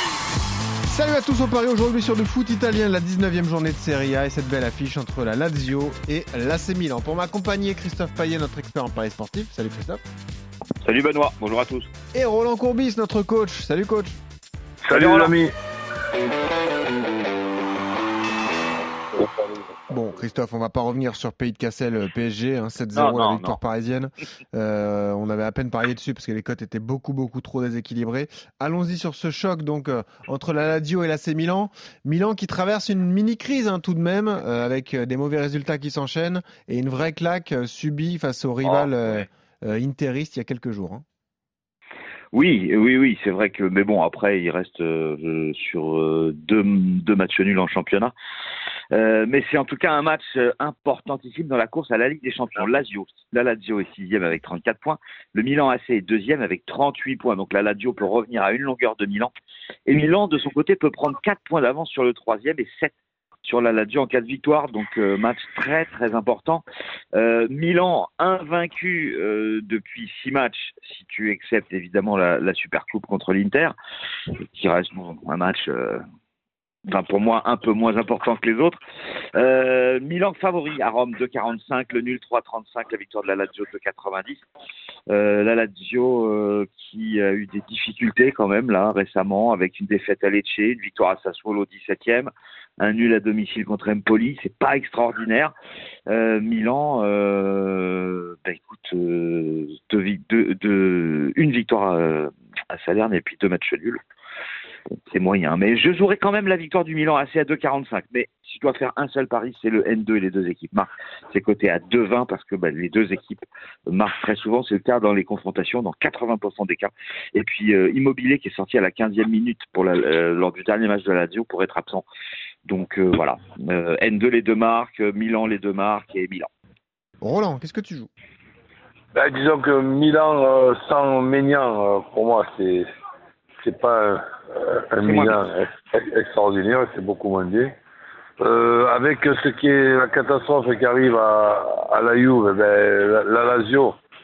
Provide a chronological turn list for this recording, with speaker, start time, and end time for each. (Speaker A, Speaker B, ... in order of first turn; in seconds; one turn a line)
Speaker A: 0.9-10.0
Speaker B: 10.8-11.9
Speaker A: 12.1-14.2
Speaker C: 14.8-15.5
Speaker B: 14.9-15.3
Speaker C: 19.2-19.6
Speaker A: 19.9-41.0
Speaker B: 22.9-23.6
Speaker B: 38.6-39.2
Speaker B: 42.3-48.1
Speaker B: 48.9-59.3
Speaker B: 59.9-66.6
Speaker B: 67.1-73.7
Speaker B: 74.5-76.0
Speaker B: 76.9-78.8
Speaker B: 79.3-84.4
Speaker B: 85.1-95.5
Speaker B: 96.1-104.0
Speaker B: 105.1-122.0
Speaker B: 122.7-126.5
Speaker A: 127.2-128.1
Speaker C: 129.1-132.9
Speaker C: 133.6-137.7
Speaker B: 135.0-135.4
Speaker C: 138.4-144.0